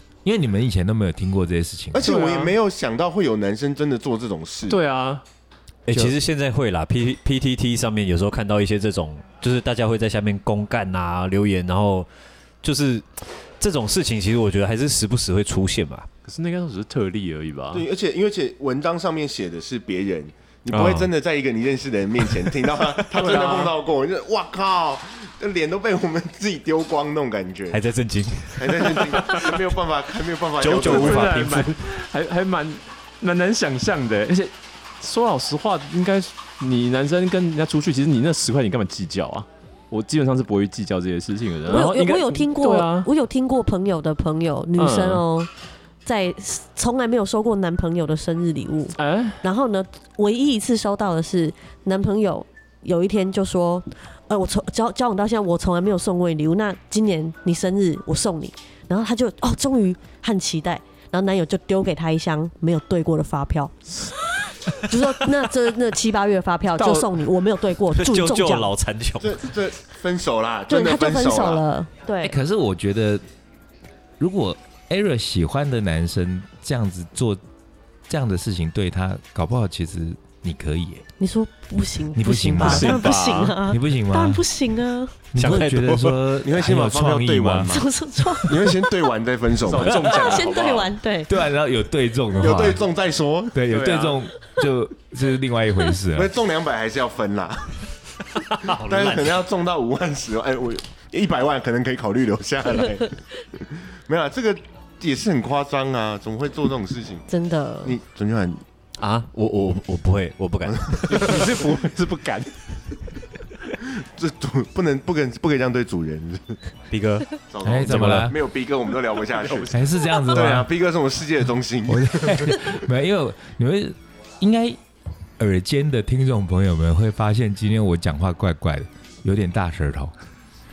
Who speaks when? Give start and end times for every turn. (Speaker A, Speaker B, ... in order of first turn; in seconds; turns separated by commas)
Speaker A: 0.2-2.1, Speaker B: 1.9-4.8, Speaker C: 2.0-2.5, Speaker C: 4.7-5.2, Speaker D: 5.9-12.1, Speaker A: 5.9-6.2, Speaker D: 12.6-16.1, Speaker C: 16.2-17.9, Speaker B: 17.7-27.8, Speaker D: 20.7-21.1, Speaker D: 22.2-23.0, Speaker C: 23.2-23.7, Speaker D: 27.7-29.7, Speaker B: 28.6-31.4, Speaker D: 30.6-31.9, Speaker C: 30.8-43.1, Speaker E: 41.6-45.5, Speaker C: 44.8-45.2, Speaker E: 46.0-68.7, Speaker C: 49.0-49.4, Speaker D: 66.8-67.1, Speaker D: 67.9-69.5, Speaker B: 69.2-71.6, Speaker E: 70.7-72.4, Speaker A: 72.2-73.2, Speaker A: 74.2-77.4, Speaker A: 78.1-81.0, Speaker E: 81.2-85.2, Speaker A: 82.1-84.4, Speaker C: 82.6-83.6, Speaker A: 85.3-87.7, Speaker D: 85.3-86.2, Speaker B: 86.4-87.9, Speaker E: 87.7-89.0, Speaker B: 88.4-90.1, Speaker C: 89.6-91.0, Speaker A: 89.9-90.3, Speaker E: 90.0-91.3, Speaker A: 91.3-92.8, Speaker B: 92.3-93.6, Speaker A: 93.5-96.3, Speaker C: 93.7-94.2, Speaker B: 96.1-97.9, Speaker D: 98.5-99.4, Speaker B: 98.6-107.3, Speaker E: 107.3-108.0, Speaker B: 107.8-108.6, Speaker D: 109.0-111.5, Speaker B: 110.7-111.3, Speaker C: 111.1-112.6, Speaker B: 113.8-116.6, Speaker D: 116.9-117.3, Speaker B: 117.5-122.8, Speaker A: 117.6-118.4, Speaker D: 117.9-118.3, Speaker C: 119.4-119.7, Speaker A: 119.7-120.7, Speaker A: 121.9-124.8, Speaker A: 125.4-130.1